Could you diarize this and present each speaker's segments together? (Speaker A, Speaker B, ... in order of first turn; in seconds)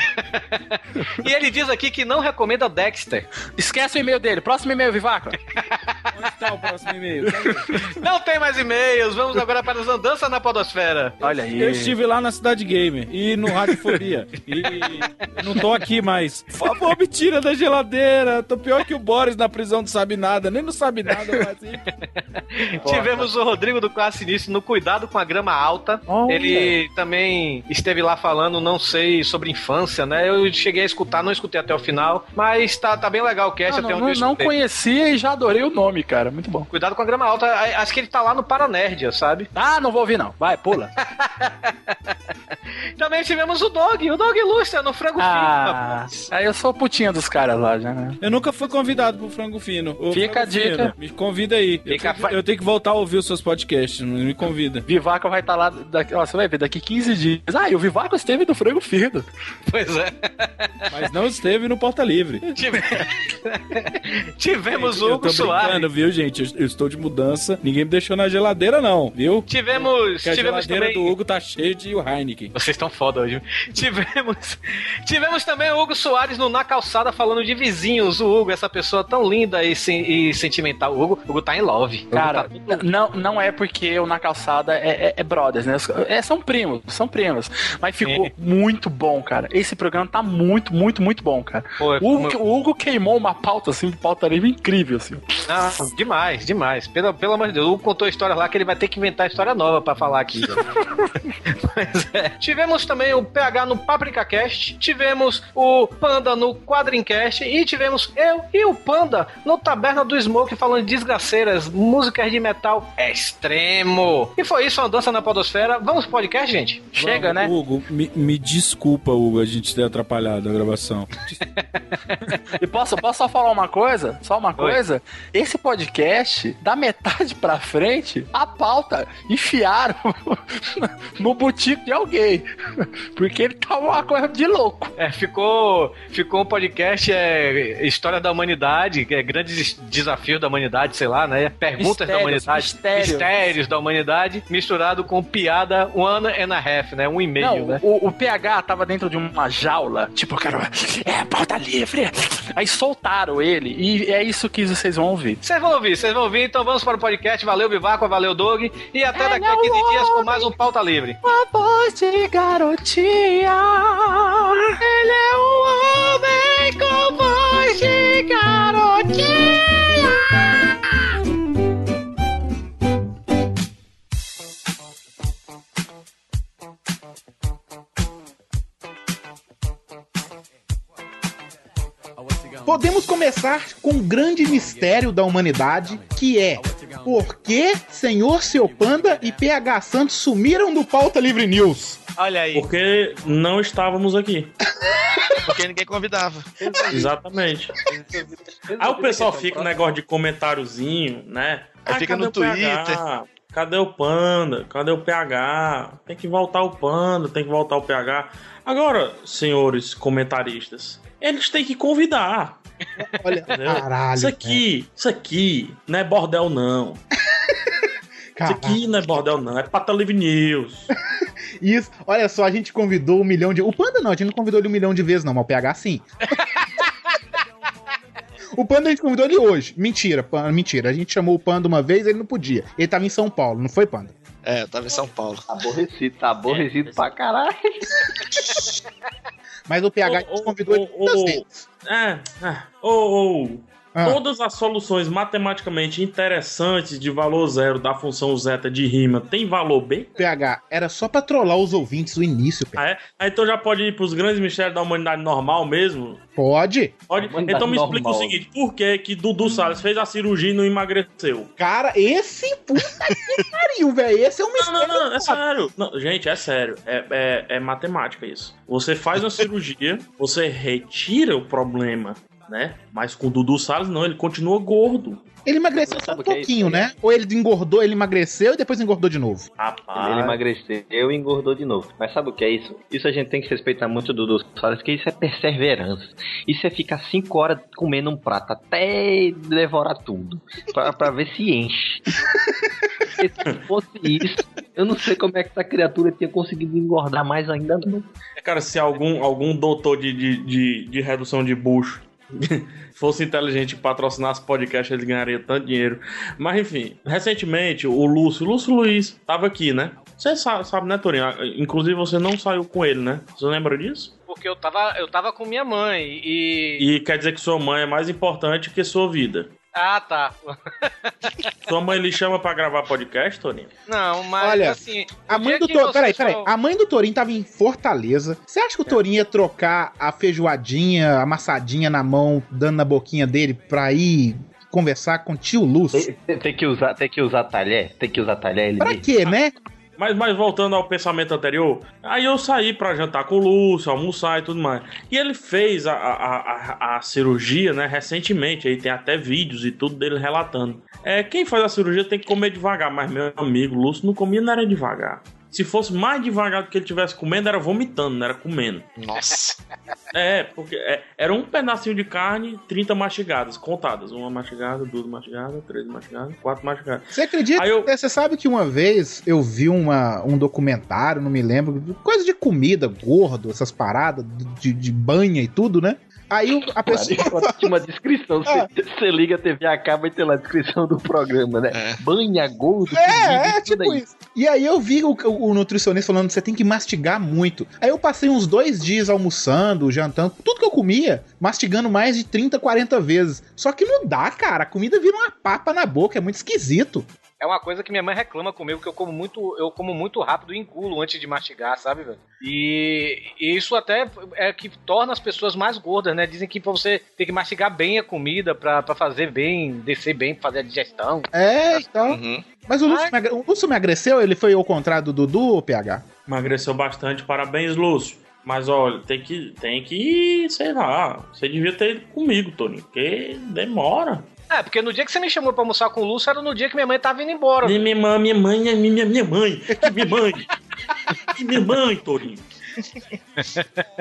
Speaker A: 0.1-3.3, 7.7-11.3, 14.7-14.9, 21.3-34.5, 36.7-39.5, 41.0-42.1, 43.0-46.1, 59.6-60.9, 62.6-65.9, 69.5-71.1, 72.5-82.8, 88.0-88.3, 91.8-92.4, 95.5-100.7, 101.5-117.0, 121.6-122.1, 135.0-147.8, 155.4-161.2, 192.2-192.7, 314.3-316.8, 319.8-321.5, 323.9-326.5, 397.4-411.3, 412.9-413.1, 424.5-427.8, 433.4-433.8
Speaker B: 3.6-5.4, 11.2-11.9, 22.9-23.2, 26.1-26.8, 33.7-36.7, 39.5-40.9, 45.2-48.2, 50.1-50.9, 54.9-59.3, 82.1-95.4, 100.5-101.0, 116.9-117.5, 122.5-134.9, 141.8-143.3, 147.4-155.4, 159.1-160.5, 161.2-170.8
Speaker C: 6.1-7.8, 11.6-21.8, 48.2-54.9, 60.9-62.8, 64.8-72.5, 117.0-121.2
Speaker D: 182.6-192.0, 213.0-214.6, 218.4-219.2, 221.6-226.6, 228.6-234.1, 238.2-238.6, 239.7-241.5, 250.2-252.8, 256.4-256.9, 261.6-265.4, 275.4-279.4, 324.4-336.1, 338.8-339.5, 367.1-377.7, 382.9-397.1, 411.3-416.0
Speaker E: 192.5-194.5, 196.9-197.7, 198.8-212.6, 213.5-217.0, 218.4-220.9, 236.5-237.2, 240.0-250.1, 252.8-256.2, 257.1-261.5, 264.6-275.2, 279.6-280.4, 298.4-314.1, 316.8-319.5, 321.7-323.7, 340.0-358.9, 360.1-367.9, 416.3-424.3, 427.6-430.5, 431.2-432.4
Speaker F: 195.4-196.6, 201.8-203.0, 234.4-235.4, 359.0-359.6, 381.7-382.0, 411.8-412.5
Speaker G: 198.1-199.9, 235.5-237.8, 257.2-258.4, 275.8-276.9, 279.9-292.2, 293.2-298.1, 335.9-339.1, 376.8-384.0